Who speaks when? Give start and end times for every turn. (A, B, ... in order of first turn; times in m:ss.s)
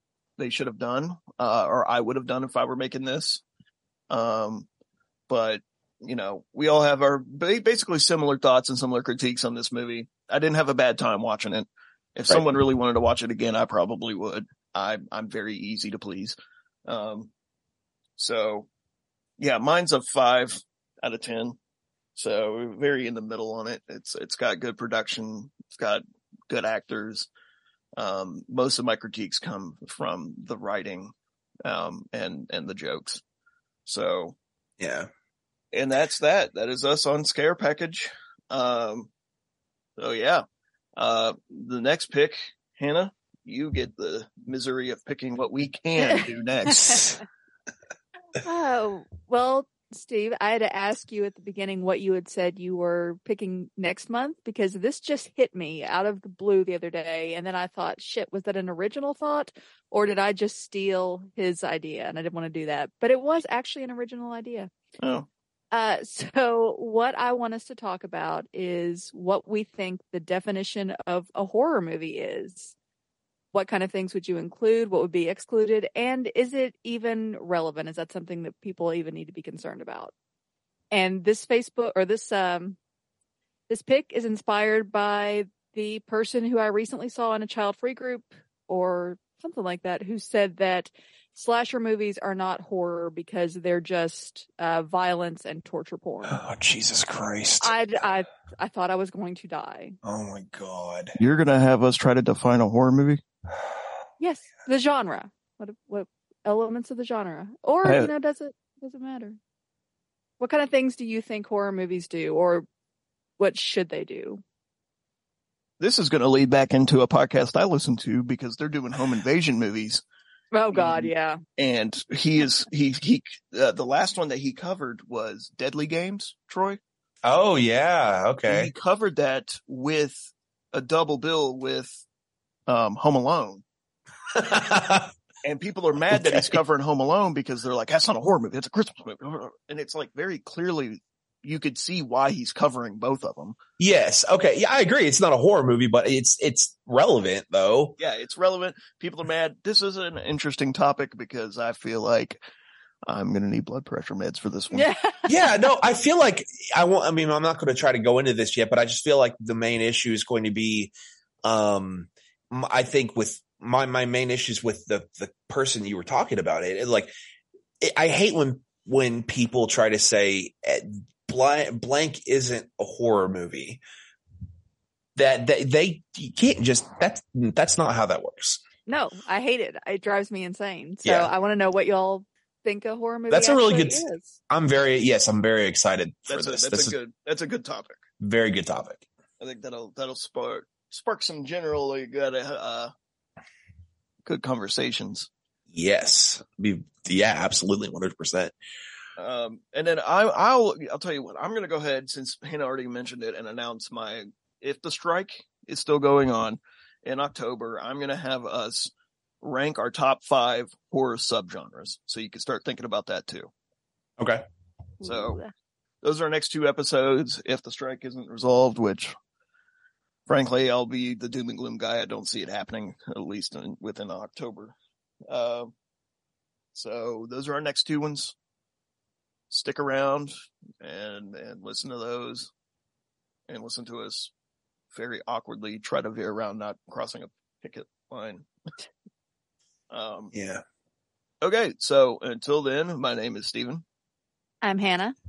0:00.4-0:03.4 A
0:04.1-0:04.7 A
0:05.3-0:16.4 A
0:16.9-0:17.3 A
0:18.2-0:18.7 A
0:19.4-0:21.6 A
0:22.2-0:27.3 A
0:28.0-0:31.1 A
0:31.6-0:33.2 A
0:33.9-0:34.4 A
0:34.8-0:35.1 B
0:35.7-0:39.1 A
0:40.0-0:40.4 A
0:41.0-0:47.1 A
0:46.8-0:47.1 B
0:48.4-1:04.7 C
1:05.0-1:05.3 A
1:05.7-1:12.8 C
1:13.5-1:20.1 C
1:20.9-1:22.8 C
1:23.7-1:36.4 C
1:36.3-1:37.7 B
1:37.6-1:40.0 C
1:40.0-1:41.2 B
1:41.2-1:43.2 A
1:44.2-1:49.4 C
1:47.8-1:48.1 A
1:50.4-1:52.7 C
1:53.4-1:54.4 C
1:55.8-2:00.0 A
2:00.5-2:01.4 C
2:00.7-2:06.8 A
2:07.2-2:08.7 B
2:08.5-2:12.0 A
2:12.7-2:13.6 A
2:14.4-2:15.1 B
2:15.4-2:23.6 A
2:16.1-2:16.6 B
2:23.8-2:28.0 B
2:28.0-2:32.4 A
2:33.1-2:34.9 A
2:34.7-2:35.3 C
2:35.3-2:40.9 B
2:41.4-2:47.1 B
2:47.8-2:53.8 B
2:55.2-2:58.6 B
2:58.9-3:04.3 C
3:01.0-3:01.3 B
3:03.3-3:07.0 B
3:06.3-3:08.0 A
3:08.2-3:09.1 B
3:09.4-3:12.9 A
3:14.2-3:15.3 A
3:15.7-3:18.6 B
3:19.2-3:33.5 A
3:35.0-3:35.5 C
3:35.0-3:35.4 A
3:36.0-3:39.1 A
3:40.3-3:44.8 A
3:45.3-3:45.7 A
3:46.8-3:48.4 A
3:49.5-3:52.5 A
3:53.5-3:54.3 A
3:54.9-3:58.5 A
3:59.9-4:00.3 A
4:00.3-4:00.6 B
4:01.4-4:03.8 A
4:04.6-4:05.2 C